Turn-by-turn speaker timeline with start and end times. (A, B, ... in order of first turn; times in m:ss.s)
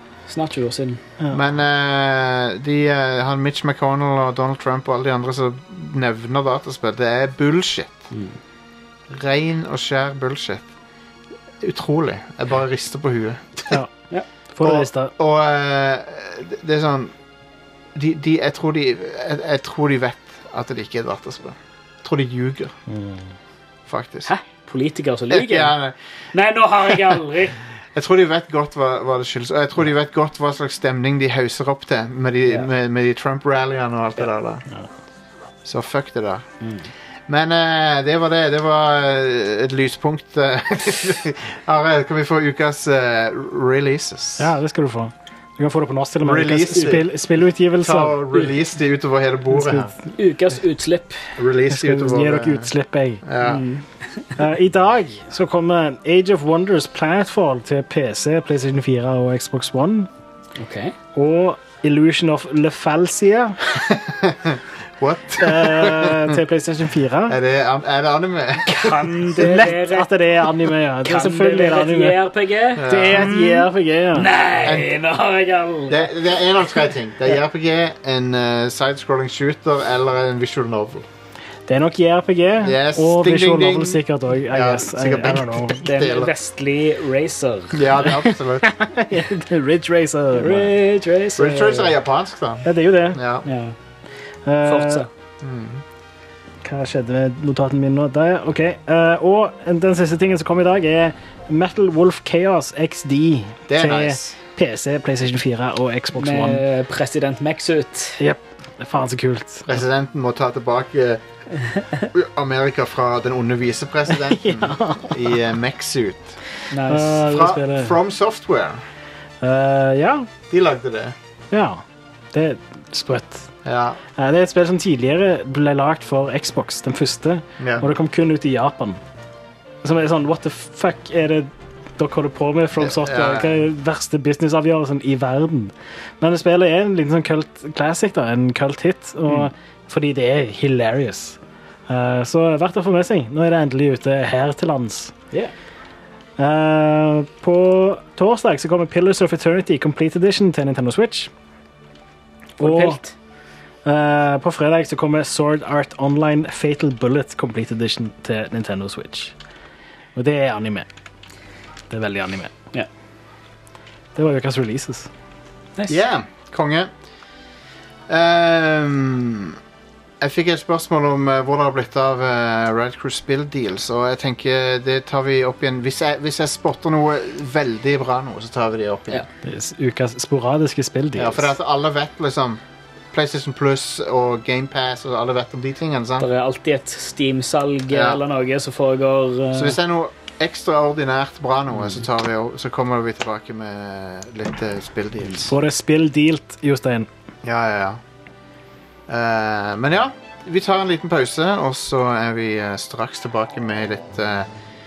0:00.3-0:01.0 A
0:01.3-0:08.0 B
0:08.1-0:08.4 A
0:09.1-0:10.6 B
0:11.6-0:13.8 B
0:14.5-0:15.1 C
0:14.6-0:17.1 B
0:18.0-0:22.7 B
0:22.9-0:23.3 C
0:23.9-0:24.3 B
0:24.3-0:25.7 A
0:25.3-0:26.0 B
0:26.3-0:27.6 A
0:28.0-0:34.6 B
0:35.6-0:36.4 B
0:36.6-0:36.9 A
0:37.3-0:44.5 B
0:44.4-0:48.4 C
0:46.2-0:47.1 B
0:47.8-0:49.9 B
0:49.5-0:49.9 C
0:50.2-0:51.2 A
0:51.4-0:52.7 B
0:51.7-0:53.2 C
0:53.2-0:53.6 B
0:53.4-0:54.3 A
0:54.4-1:00.1 C
1:00.6-1:01.0 A
1:01.1-1:03.8 C
1:03.9-1:06.4 B
1:05.4-1:07.4 C
1:07.3-1:09.2 B
1:08.7-1:10.1 A
1:09.4-1:12.2 C
1:11.0-1:16.1 A
1:12.8-1:13.3 B
1:12.8-1:14.3 C
1:14.6-1:14.9 B
1:15.9-1:21.0 B
1:21.7-1:25.8 C
1:22.6-1:26.3 B
1:25.8-1:27.8 A
1:27.7-1:28.8 B
1:28.6-1:30.7 C
1:30.4-1:31.9 A
1:31.4-1:33.4 B
1:32.6-1:33.2 C
1:33.4-1:33.7 A
1:34.4-1:35.1 C
1:34.6-1:35.1 A
1:35.4-1:35.8 B
1:36.6-1:46.6 C
1:43.7-1:44.4 B
1:46.2-1:48.2 A
1:48.2-1:49.7 C
1:49.7-1:51.2 B
1:52.1-1:56.4 B
1:54.1-1:55.4 C
1:56.7-1:57.2 A
1:56.9-1:58.0 C
1:57.2-1:58.8 B
1:59.4-2:00.3 C
2:00.5-2:01.1 B
2:01.5-2:03.5 C
2:03.6-2:04.0 B
2:04.2-2:09.0 C
2:07.6-2:07.9 B
2:09.8-2:25.1 C
2:12.8-2:13.6 B
2:26.4-2:31.3 C
2:32.6-2:33.0 C
2:32.6-2:33.1 A
2:33.8-2:39.3 C
2:40.1-2:40.9 C
2:41.9-2:42.6 C
2:44.1-2:45.1 C
2:45.9-2:46.9 B
2:48.1-2:49.6 B
2:50.2-2:59.2 B
2:59.4-3:01.5 C
3:01.2-3:02.6 B
3:03.1-3:06.3 B
3:06.2-3:09.8 A
3:07.9-3:08.2 B
3:09.5-3:15.5 B
3:15.4-3:17.1 C
3:17.4-3:18.0 B
3:19.1-3:24.5 B